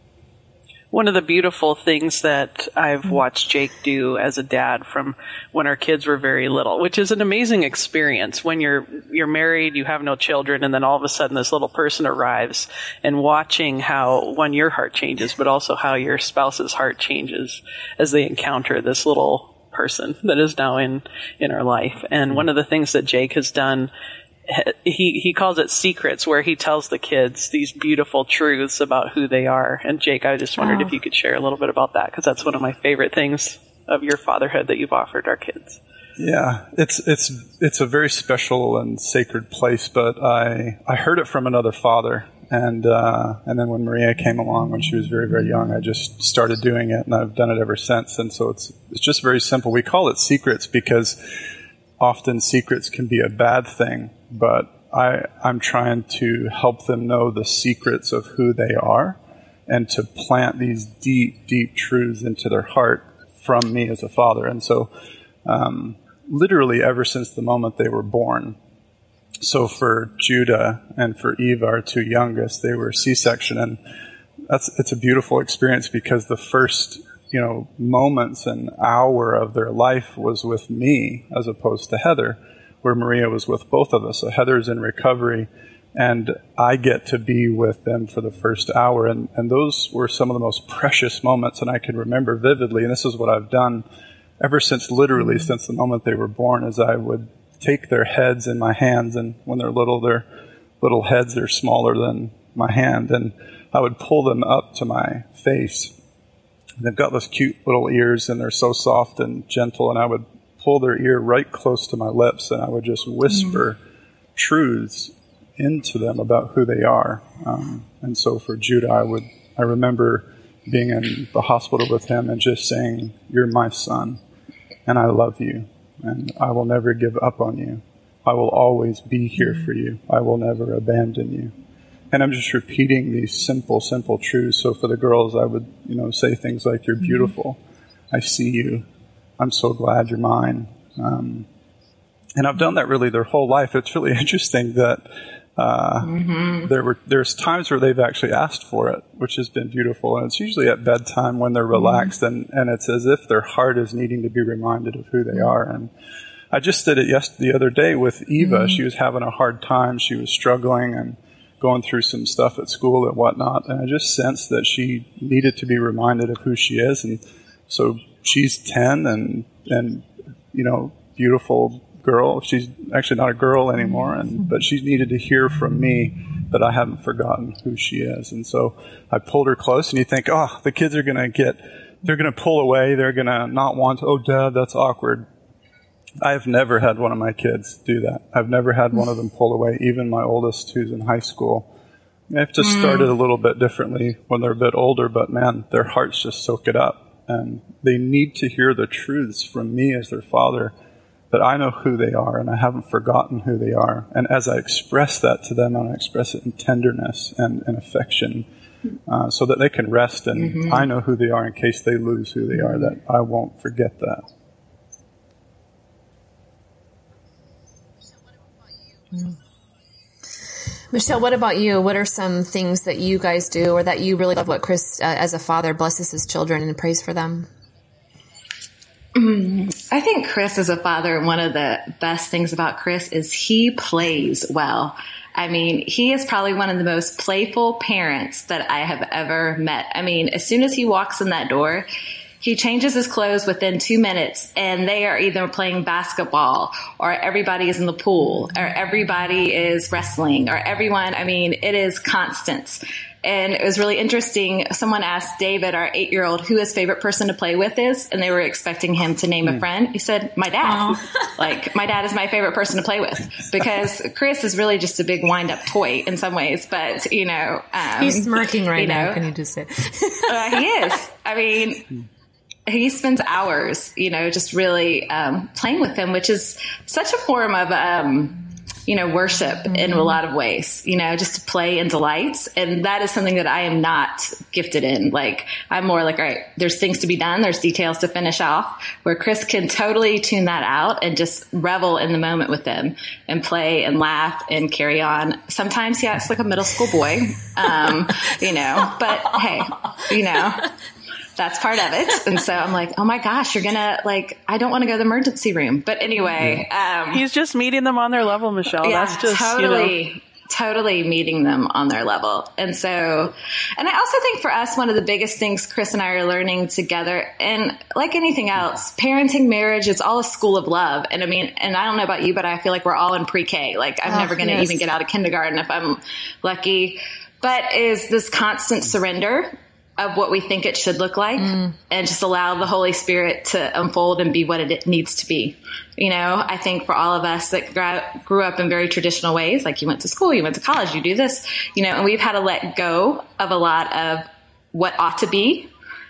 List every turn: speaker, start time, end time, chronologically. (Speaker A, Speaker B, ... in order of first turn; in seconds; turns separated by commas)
Speaker A: 0.9-23.9, Speaker A: 24.5-35.8, Speaker B: 36.2-51.2, Speaker B: 52.0-59.2, Speaker B: 59.7-64.9, Speaker B: 65.4-68.6, Speaker B: 69.4-73.8, Speaker B: 74.5-93.8, Speaker B: 94.4-100.2, Speaker B: 100.8-105.9, Speaker B: 106.8-113.8, Speaker B: 114.3-124.2, Speaker B: 124.8-131.5, Speaker B: 132.1-137.6, Speaker B: 138.1-138.8, Speaker B: 139.4-141.4, Speaker B: 142.4-155.9, Speaker C: 146.0-146.7, Speaker B: 156.5-185.2, Speaker B: 186.2-191.7, Speaker B: 192.3-200.7, Speaker C: 192.6-193.1, Speaker B: 201.3-208.4, Speaker B: 209.1-214.2, Speaker C: 210.3-210.9, Speaker D: 220.9-227.5, Speaker C: 229.1-241.9, Speaker C: 242.4-269.2, Speaker D: 268.0-270.6, Speaker C: 270.3-271.9, Speaker C: 272.7-300.7, Speaker C: 301.4-307.2, Speaker A: 307.1-309.9, Speaker C: 308.8-345.7, Speaker D: 324.1-324.8